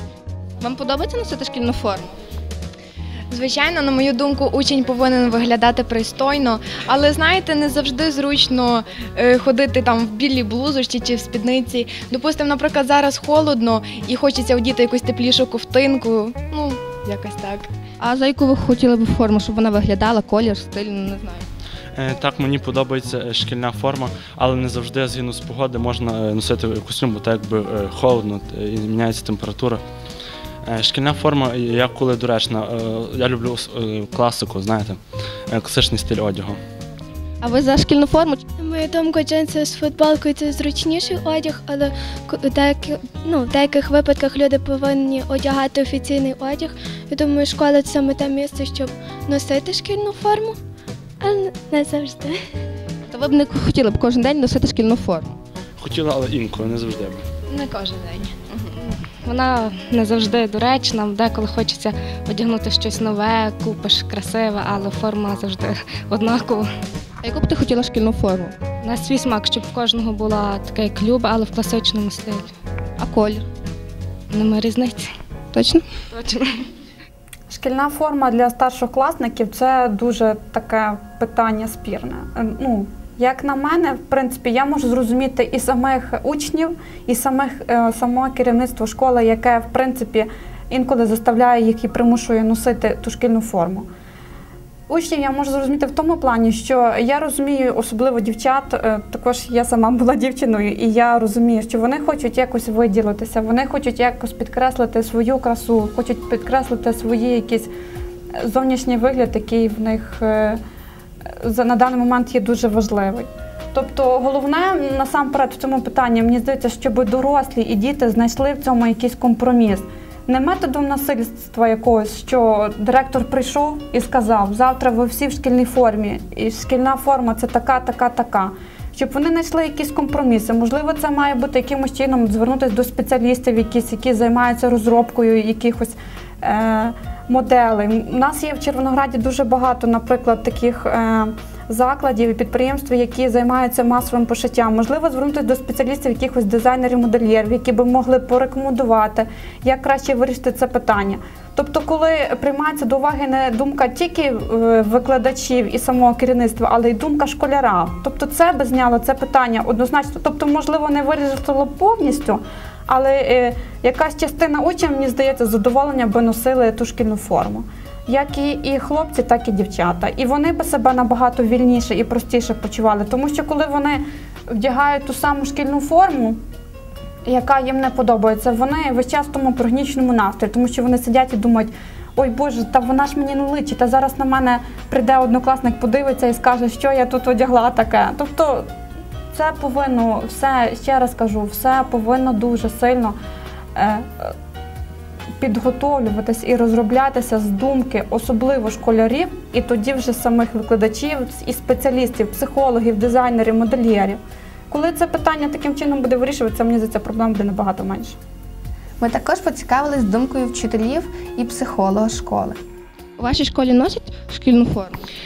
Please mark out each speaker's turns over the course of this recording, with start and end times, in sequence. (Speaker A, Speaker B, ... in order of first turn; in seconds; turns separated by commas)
Speaker A: 0.6-2.2, Speaker B: 3.3-17.7, Speaker A: 18.0-21.5, Speaker C: 21.9-29.8, Speaker C: 30.7-36.6, Speaker A: 37.4-38.4, Speaker D: 38.6-50.6, Speaker D: 51.2-52.4, Speaker A: 53.0-55.4, Speaker C: 55.8-57.2, Speaker B: 57.5-58.4, Speaker A: 58.5-58.8, Speaker E: 58.9-66.7, Speaker A: 67.2-68.5, Speaker E: 68.8-72.5, Speaker A: 73.0-73.5, Speaker E: 74.3-75.1, Speaker A: 75.5-75.8, Speaker E: 76.1-76.6, Speaker F: 77.5-93.9, Speaker F: 94.9-107.7, Speaker F: 108.4-110.6, Speaker F: 111.4-176.4, Speaker F: 177.3-188.7, Speaker F: 189.3-193.2, Speaker F: 193.8-194.3, Speaker F: 195.4-204.2, Speaker F: 204.7-208.2, Speaker G: 209.0-212.6, Speaker A: 213.2-215.1